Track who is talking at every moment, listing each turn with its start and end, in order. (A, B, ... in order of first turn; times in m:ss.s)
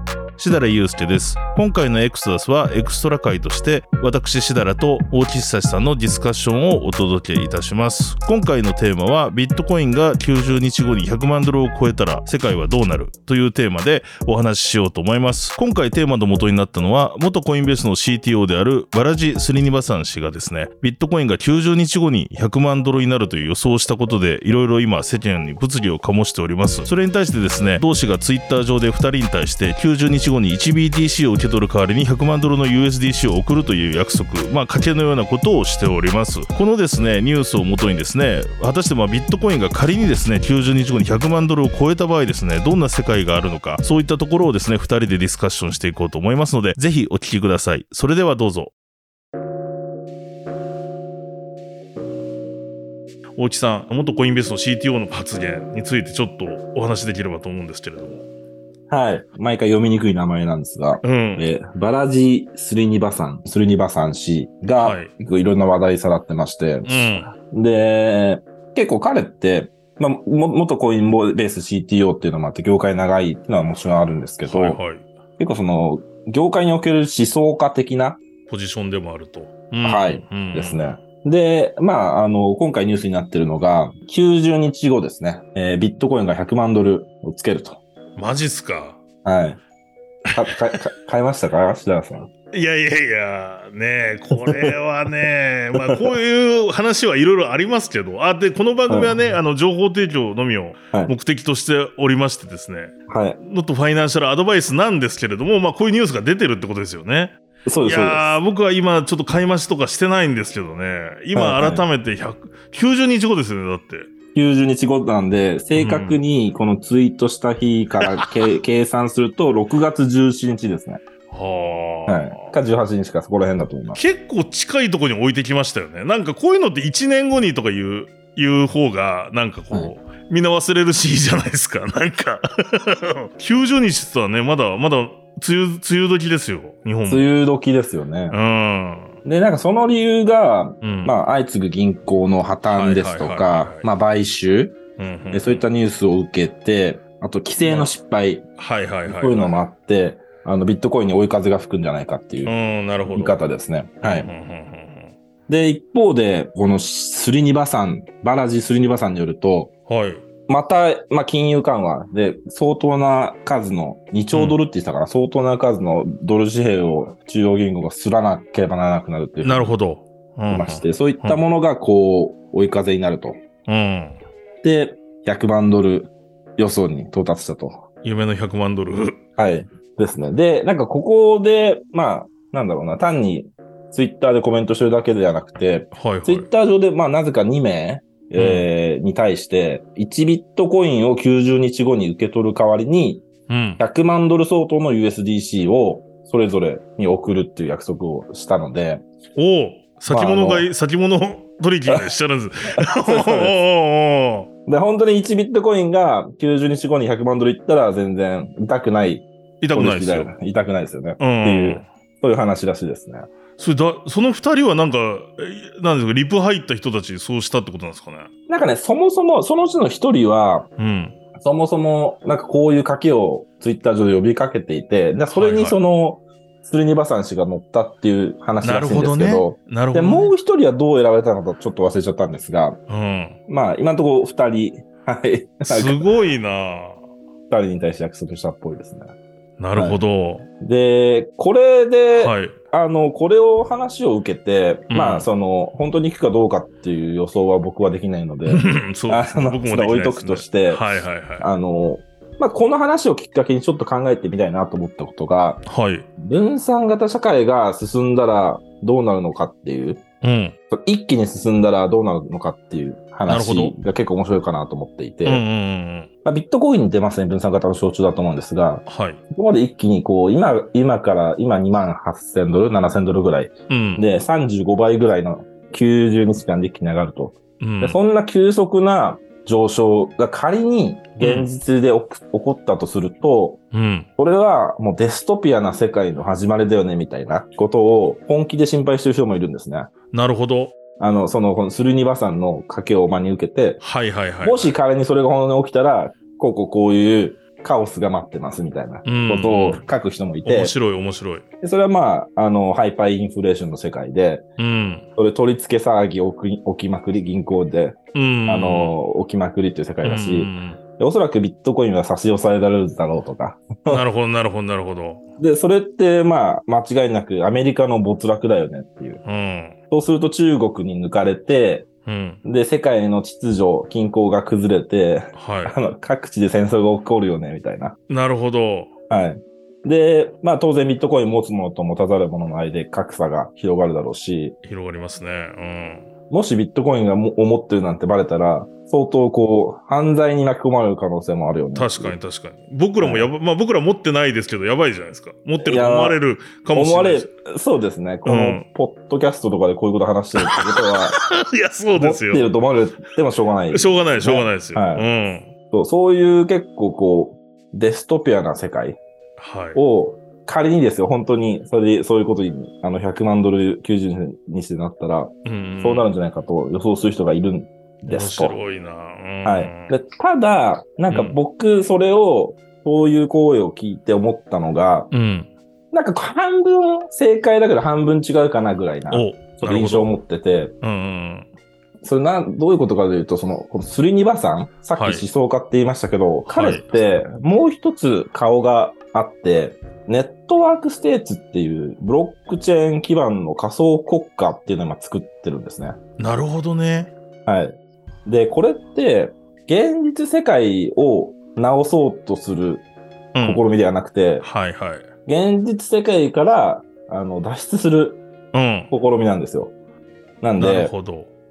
0:00.4-0:48.7 A
0:53.4-0:58.2 A
0:58.9-1:14.8 B
1:01.0-1:01.5 A
1:04.8-1:05.1 A
1:06.8-1:07.3 A
1:14.4-1:15.1 A
1:15.4-1:18.2 B
1:18.5-1:20.9 A
1:19.8-1:27.8 B
1:28.2-1:29.0 A
1:29.2-1:29.6 B
1:30.3-1:32.3 B
1:32.5-1:54.1 A
1:34.3-1:34.8 B
1:35.7-1:36.1 B
1:38.9-1:39.1 B
1:43.1-1:43.4 B
1:47.6-1:48.4 B
1:51.3-1:51.8 B
1:54.3-2:01.0 B
1:55.7-1:56.2 A
2:01.3-2:02.5 A
2:02.1-2:04.0 B
2:03.9-2:17.3 A
2:17.1-2:18.4 B
2:18.3-2:19.2 A
2:19.2-2:24.8 B
2:20.8-2:21.1 A
2:22.7-2:23.8 A
2:25.0-2:25.6 A
2:25.3-2:28.5 B
2:27.6-2:27.9 A
2:28.6-2:29.5 A
2:29.0-2:32.5 B
2:32.4-2:33.4 A
2:33.1-2:34.3 B
2:34.0-2:35.1 A
2:35.5-2:39.7 B
2:39.9-2:40.2 A
2:40.5-2:49.7 B
2:44.3-2:44.6 A
2:49.4-2:51.4 A
2:50.5-2:53.4 B
2:53.7-2:54.2 A
2:54.6-2:57.8 B
2:58.0-2:59.2 A
2:59.4-3:13.2 B
3:05.9-3:06.5 A
3:08.4-3:08.7 A
3:13.5-3:13.8 A
3:13.8-3:19.0 B
3:19.4-3:24.5 A
3:20.1-3:20.7 B
3:22.8-3:23.5 B
3:24.7-3:33.3 B
3:29.6-3:30.3 A
3:31.2-3:31.8 A
3:33.6-3:38.3 A
3:38.5-3:40.7 B
3:40.8-3:41.2 A
3:41.4-3:52.8 B
3:45.3-3:45.8 A
3:48.6-3:50.3 A
3:52.9-3:53.4 A
3:53.5-3:56.0 B
3:55.6-3:57.0 A
3:57.5-3:59.1 B
3:59.6-4:00.5 A
3:59.8-4:00.0 B
4:00.6-4:10.8 B
4:02.1-4:02.5 A
4:04.9-4:05.3 A
4:08.4-4:11.5 A
4:11.4-4:15.6 B
4:15.6-4:16.1 A
4:16.2-4:20.0 B
4:20.2-4:20.6 A
4:20.7-4:25.4 B
4:23.2-4:23.8 A
4:25.2-4:26.1 A
4:26.2-4:43.6 B
4:28.8-4:29.2 A
4:33.7-4:34.0 A
4:37.6-4:38.0 A
4:41.2-4:41.5 A
4:43.7-4:44.1 A
4:44.2-4:49.9 B
4:50.1-4:50.7 A
4:51.0-4:53.8 B
4:53.8-4:54.7 A
4:54.4-5:00.7 B
4:59.0-4:59.8 A
5:00.4-5:01.4 A
5:01.6-5:04.4 B
5:04.6-5:05.0 A
5:05.2-5:14.0 B
5:08.1-5:09.0 A
5:10.0-5:10.8 A
5:13.9-5:15.2 A
5:15.4-5:19.2 B
5:19.2-5:19.8 A
5:19.9-5:21.9 B
5:22.0-5:22.4 A
5:22.4-5:28.0 B
5:25.4-5:25.8 A
5:28.1-5:28.9 A
5:29.1-5:34.6 B
5:34.6-5:36.1 A
5:36.3-5:42.1 B
5:41.7-5:47.3 A
5:43.0-5:43.3 B
5:45.6-5:46.2 B
5:46.7-5:51.2 B
5:48.2-5:48.6 A
5:50.4-5:52.5 A
5:52.0-5:55.0 B
5:53.7-5:55.5 A
5:55.7-5:59.0 B
5:59.4-5:59.8 A
5:59.7-6:08.6 B
6:05.4-6:06.0 A
6:08.1-6:09.9 A
6:09.4-6:15.1 B
6:11.1-6:11.4 A
6:15.1-6:15.5 A
6:15.9-6:20.7 B
6:19.1-6:20.1 A
6:20.8-6:21.5 A
6:22.0-6:36.0 B
6:24.9-6:25.2 A
6:26.5-6:27.0 A
6:36.2-6:37.1 A
6:37.4-6:42.8 B
6:43.3-6:43.6 A
6:43.4-6:44.4 B
6:44.4-6:45.1 A
6:45.2-6:48.2 B
6:48.5-6:48.9 A
6:48.9-6:49.7 B
6:50.4-6:50.9 B
6:50.6-6:51.3 A